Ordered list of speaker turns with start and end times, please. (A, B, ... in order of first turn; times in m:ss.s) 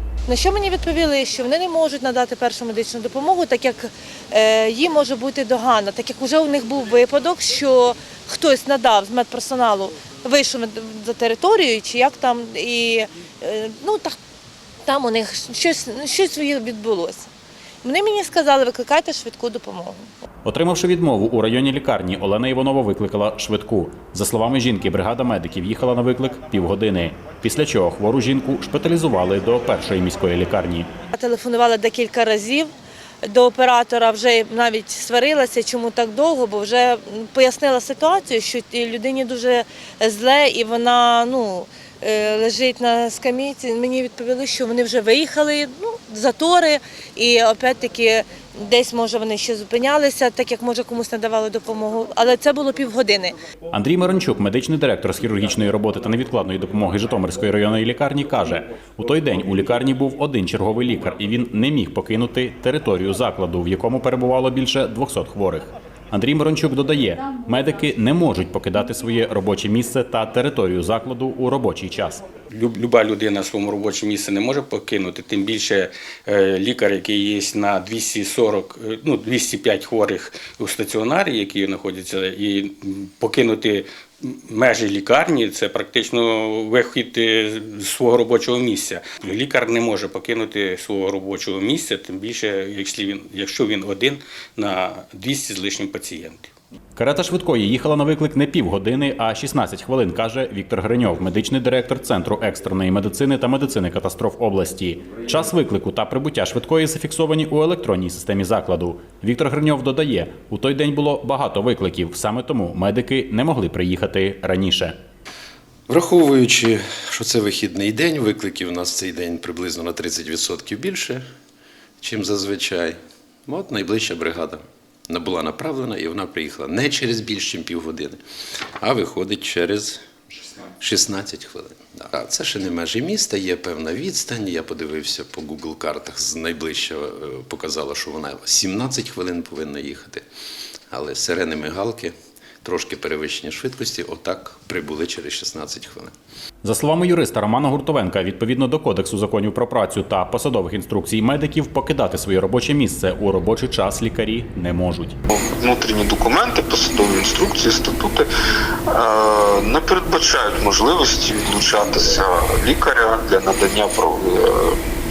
0:00.3-0:14.2 A
0:14.8-0:17.3 A
0:17.8-0:20.1 A
0:20.4-0:30.9 B
0:31.1-0:32.7 A
0:33.2-0:53.4 A
0:53.7-1:12.2 B
1:12.5-1:36.5 C
1:37.0-1:55.0 B
1:55.9-2:01.2 D
2:02.0-2:08.2 D
2:08.8-2:10.0 D
2:10.8-2:20.2 D
2:20.9-2:26.1 D
2:26.6-2:35.2 B
2:35.3-2:38.3 E
2:38.9-2:44.8 E